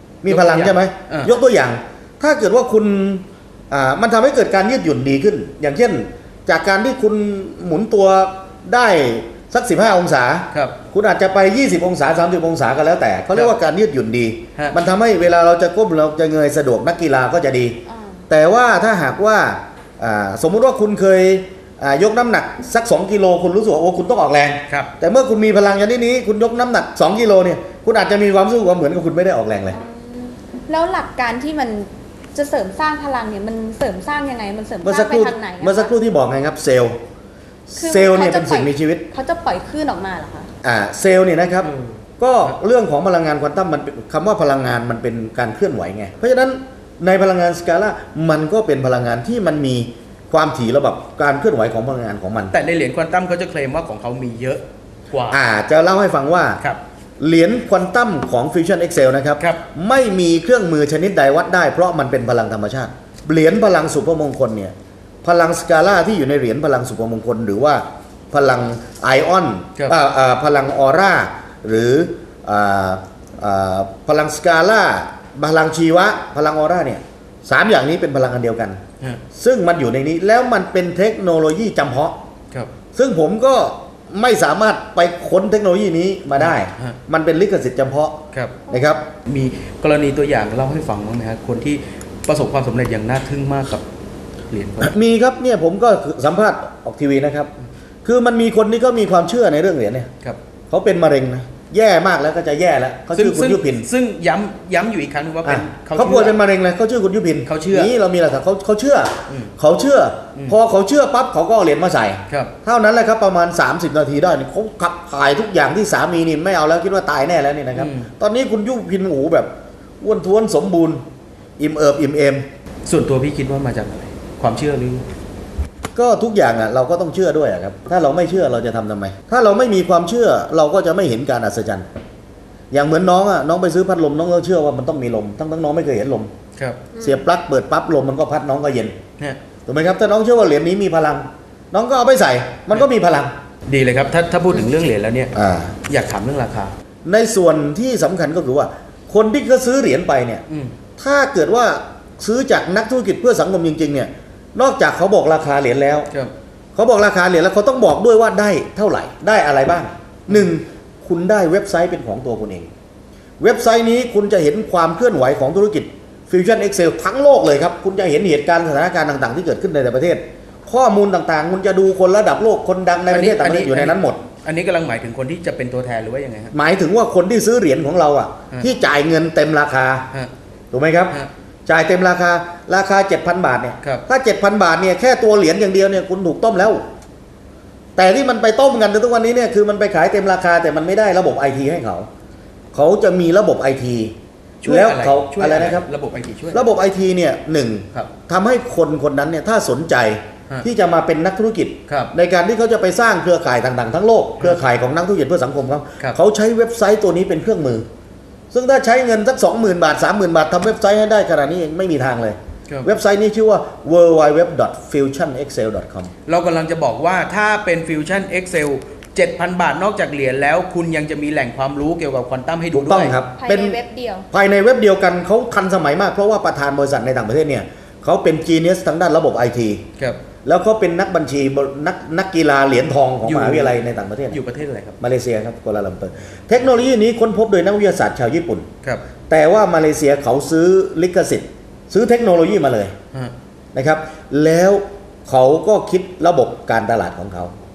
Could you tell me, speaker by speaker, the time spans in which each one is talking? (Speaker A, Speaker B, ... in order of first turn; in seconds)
Speaker A: 0.2-29.8, 34.8-37.0, 37.7-39.0, 40.6-52.5, 55.3-56.6, 57.2-78.8, 79.3-82.2, 82.9-89.1, 94.8-97.5, 98.0-100.1, 100.7-103.9, 105.4-121.0, 121.6-122.5, 125.9-131.9, 132.7-136.3, 137.0-139.0, 139.7-143.3, 145.3-145.8, 147.1-150.4, 151.0-156.1, 156.8-162.7, 163.4-174.2, 176.5-180.1, 180.7-186.8, 187.9-192.1, 192.7-195.9, 196.5-207.9, 208.5-216.1, 222.7-223.8, 224.3-229.8, 230.4-234.4, 235.0-238.7, 239.3-242.9, 243.7-247.5
Speaker B: 0.2-1.3, 10.5-10.8, 41.6-42.5, 52.5-55.4, 86.4-87.0, 88.3-88.6, 89.2-93.8, 94.5-94.9, 103.1-106.4, 107.4-107.9, 109.3-109.5, 117.7-118.1, 122.9-125.0, 136.6-136.8, 143.7-146.8, 150.5-150.8, 173.1-176.6, 194.6-196.7, 201.8-202.1, 212.7-212.9, 216.3-223.2, 233.2-233.8, 234.3-234.9
Speaker C: 17.9-18.3, 29.7-35.9, 37.8-40.5, 136.9-137.2, 223.4-224.3